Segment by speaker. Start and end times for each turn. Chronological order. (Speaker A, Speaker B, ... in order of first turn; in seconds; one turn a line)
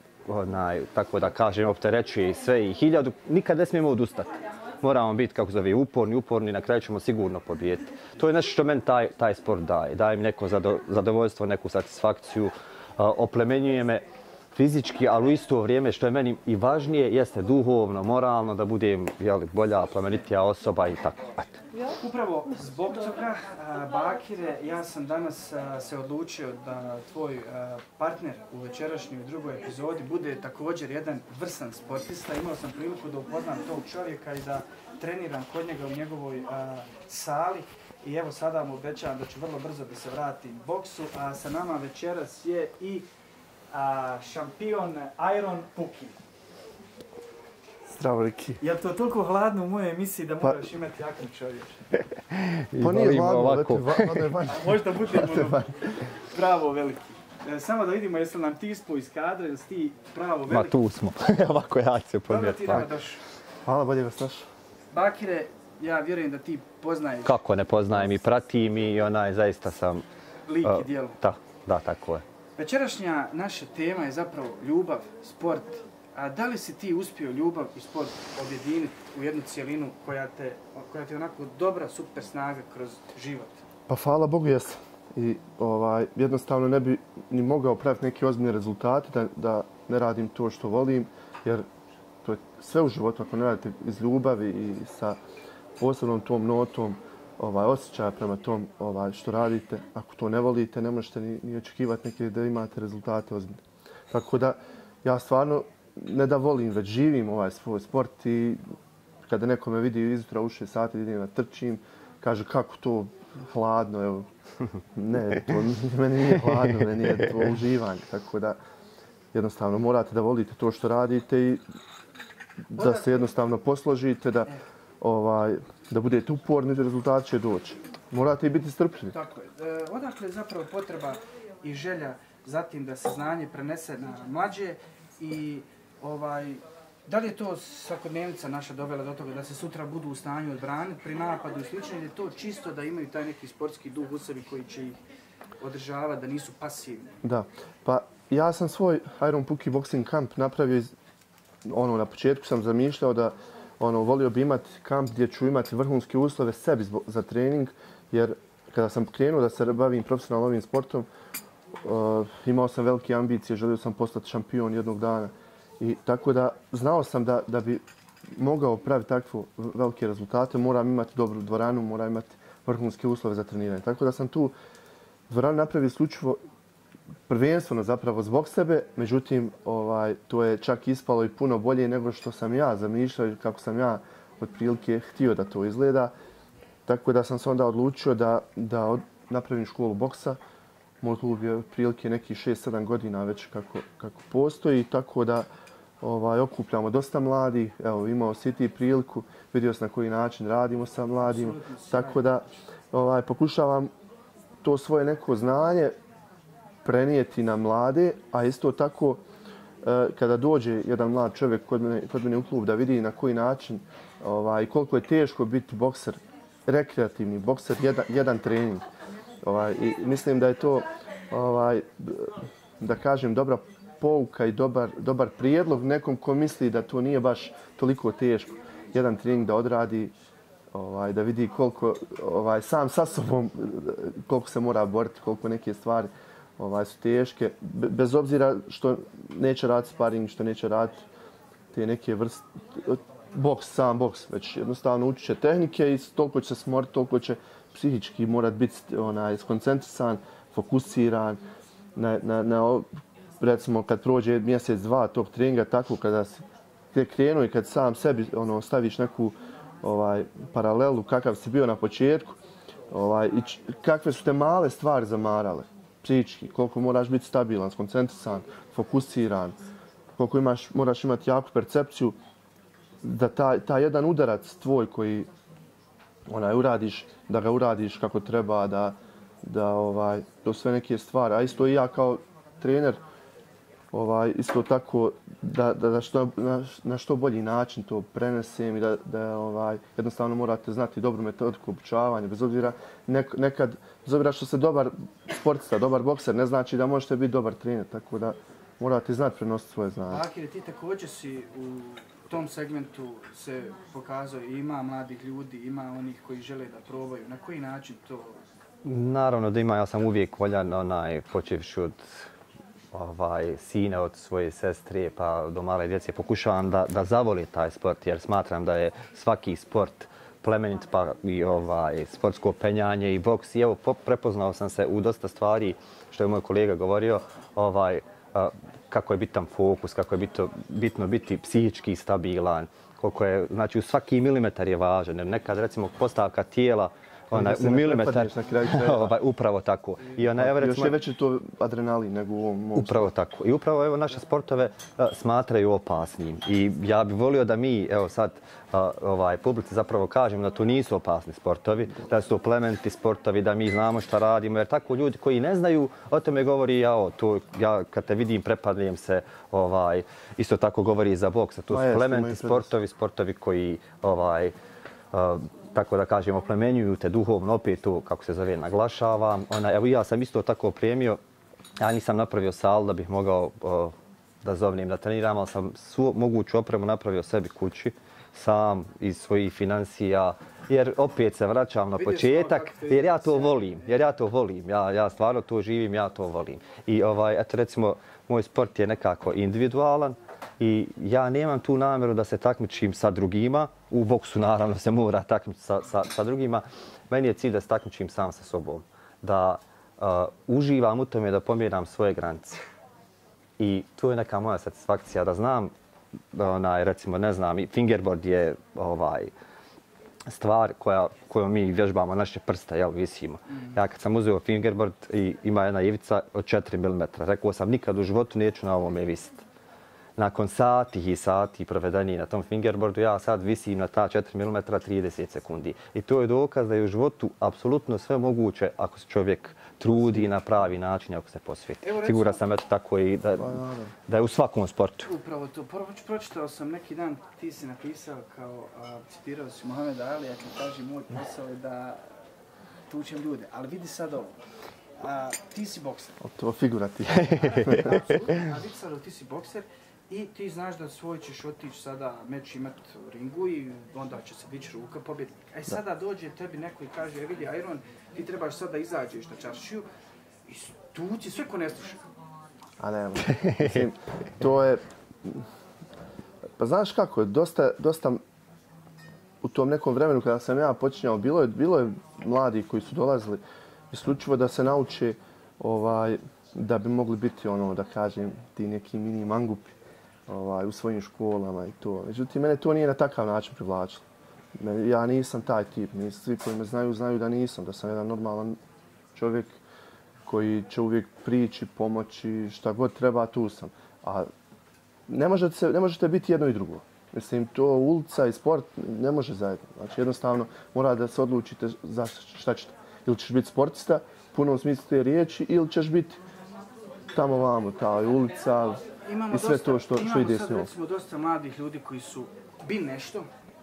Speaker A: 0.2-21.6
Speaker B: 22.0-43.1
Speaker B: 43.7-46.2
Speaker C: 47.9-48.6
Speaker B: 48.6-51.8
Speaker A: 52.3-54.3
Speaker C: 52.8-55.7
Speaker B: 54.5-60.8
Speaker A: 60.5-62.9
Speaker B: 62.3-63.2
Speaker C: 63.7-64.5
Speaker B: 64.9-67.4
Speaker A: 67.2-70.0
Speaker B: 70.5-71.2
Speaker A: 70.6-72.2
Speaker B: 72.6-83.6
Speaker C: 83.9-91.7
Speaker C: 92.2-95.2
Speaker C: 95.8-103.6
Speaker C: 104.1-108.6
Speaker C: 109.2-114.2
Speaker C: 115.0-118.6
Speaker C: 119.3-121.6
Speaker C: 122.7-129.2
Speaker B: 122.8-123.2
Speaker B: 129.1-145.0
Speaker B: 145.6-147.2
Speaker C: 147.2-150.9
Speaker C: 151.7-161.1
Speaker C: 161.8-167.8
Speaker C: 168.3-174.5
Speaker C: 175.3-176.4
Speaker C: 177.3-186.1
Speaker C: 186.9-190.4
Speaker C: 191.0-195.5
Speaker C: 196.0-203.9
Speaker B: 201.2-202.4
Speaker C: 204.6-205.9
Speaker C: 206.8-209.2
Speaker C: 209.8-218.8
Speaker C: 219.4-230.1
Speaker C: 230.7-241.1
Speaker C: 241.7-251.4
Speaker C: 252.0-252.8
Speaker C: 253.4-262.4
Speaker C: 262.9-269.6
Speaker C: 270.2-272.2
Speaker C: 273.0-275.3
Speaker C: 276.3-283.0
Speaker C: 283.9-300.2
Speaker B: 300.1-308.4
Speaker A: 308.8-312.0
Speaker A: 312.9-340.9
Speaker C: 337.3-339.1
Speaker C: 340.4-343.1
Speaker A: 342.8-364.5
Speaker C: 361.7-362.7
Speaker A: 365.1-371.2
Speaker A: 371.8-402.6
Speaker B: 381.9-384.1
Speaker A: 403.6-405.7
Speaker A: 406.3-409.3
Speaker A: 410.3-419.4
Speaker A: 420.2-435.1
Speaker B: 431.8-432.4
Speaker C: 433.4-433.9
Speaker B: 435.1-442.1
Speaker B: 442.9-444.4
Speaker B: 445.0-446.2
Speaker C: 446.2-448.0
Speaker A: 447.1-448.3
Speaker B: 447.6-459.9
Speaker B: 460.5-462.0
Speaker C: 462.8-465.4
Speaker C: 466.6-468.2
Speaker C: 469.4-479.7
Speaker C: 480.3-484.1
Speaker C: 484.6-488.6
Speaker C: 489.1-489.6
Speaker C: 490.3-494.3
Speaker C: 495.1-506.2
Speaker C: 507.1-510.7
Speaker B: 509.0-513.3